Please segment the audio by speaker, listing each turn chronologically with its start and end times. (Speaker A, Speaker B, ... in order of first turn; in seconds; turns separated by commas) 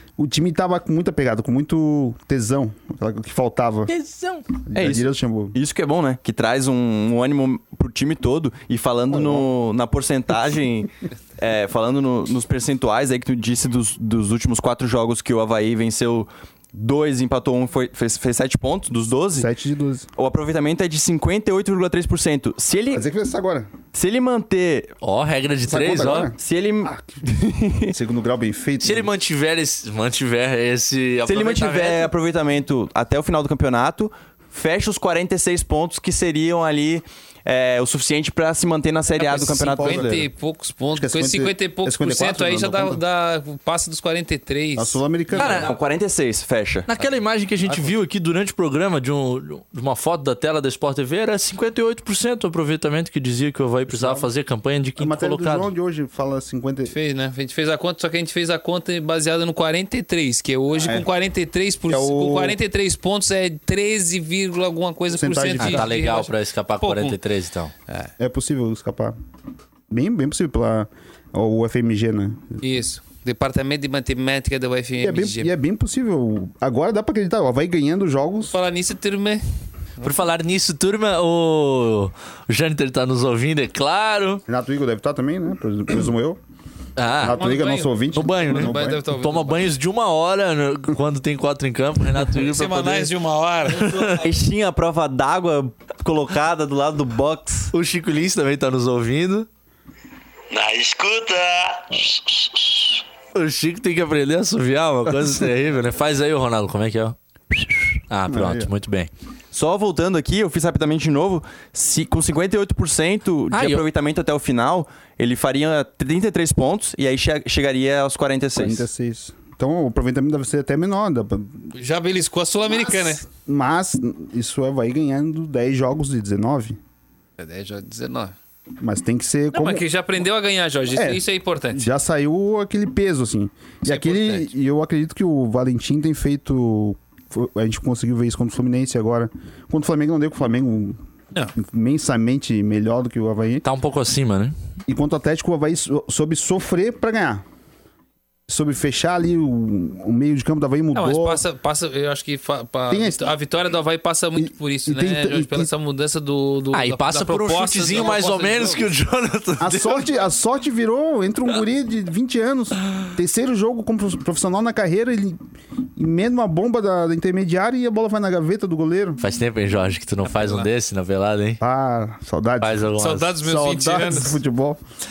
Speaker A: 0.2-3.9, Speaker B: 3.9-4.5, Speaker A: 4.7-5.5, Speaker C: 4.7-19.5, Speaker A: 9.1-9.5, Speaker A: 19.3-20.1, Speaker C: 20.2-23.0, Speaker A: 22.9-23.7, Speaker C: 23.9-24.9, Speaker B: 25.0-26.3, Speaker A: 25.7-27.2, Speaker C: 26.4-27.9, Speaker A: 27.9-29.1, Speaker B: 28.8-32.1, Speaker C: 31.2-40.1, Speaker D: 39.2-45.0, Speaker A: 39.3-40.3, Speaker A: 40.9-43.0, Speaker A: 44.8-45.6, Speaker B: 45.4-45.7, Speaker C: 45.4-46.9, Speaker B: 46.9-55.7, Speaker A: 53.9-54.3, Speaker A: 55.0-56.9, Speaker D: 56.9-67.2, Speaker A: 60.7-61.1, Speaker A: 61.9-62.6, Speaker A: 65.1-65.8, Speaker B: 65.6-67.7, Speaker A: 68.2-69.1, Speaker A: 69.9-72.5, Speaker D: 72.6-75.5, Speaker A: 75.0-78.5, Speaker D: 78.5-79.4, Speaker B: 80.0-84.4, Speaker A: 84.5-86.4, Speaker B: 87.0-87.5, Speaker A: 87.2-89.0, Speaker D: 87.3-89.6, Speaker B: 88.1-93.1, Speaker D: 92.4-94.2, Speaker B: 93.7-94.2, Speaker C: 94.2-97.7, Speaker B: 97.7-99.5, Speaker E: 100.5-103.0, Speaker B: 103.3-109.1, Speaker A: 108.3-108.7, Speaker C: 109.5-118.8, Speaker B: 113.5-113.8, Speaker A: 118.5-121.7, Speaker D: 121.7-123.2, Speaker A: 122.7-126.8, Speaker D: 127.4-128.3, Speaker A: 128.8-129.8, Speaker D: 129.5-131.8, Speaker A: 130.9-141.0, Speaker D: 133.8-134.5, Speaker A: 141.6-143.6, Speaker B: 143.6-144.5, Speaker A: 144.9-147.4, Speaker A: 148.5-151.4, Speaker D: 150.9-158.9, Speaker A: 152.9-153.3, Speaker A: 154.4-155.7, Speaker B: 156.7-160.1, Speaker A: 159.6-165.4, Speaker A: 165.9-169.2, Speaker B: 169.2-171.6, Speaker D: 170.2-170.7, Speaker A: 171.6-174.8, Speaker B: 172.6-173.3, Speaker D: 173.0-174.4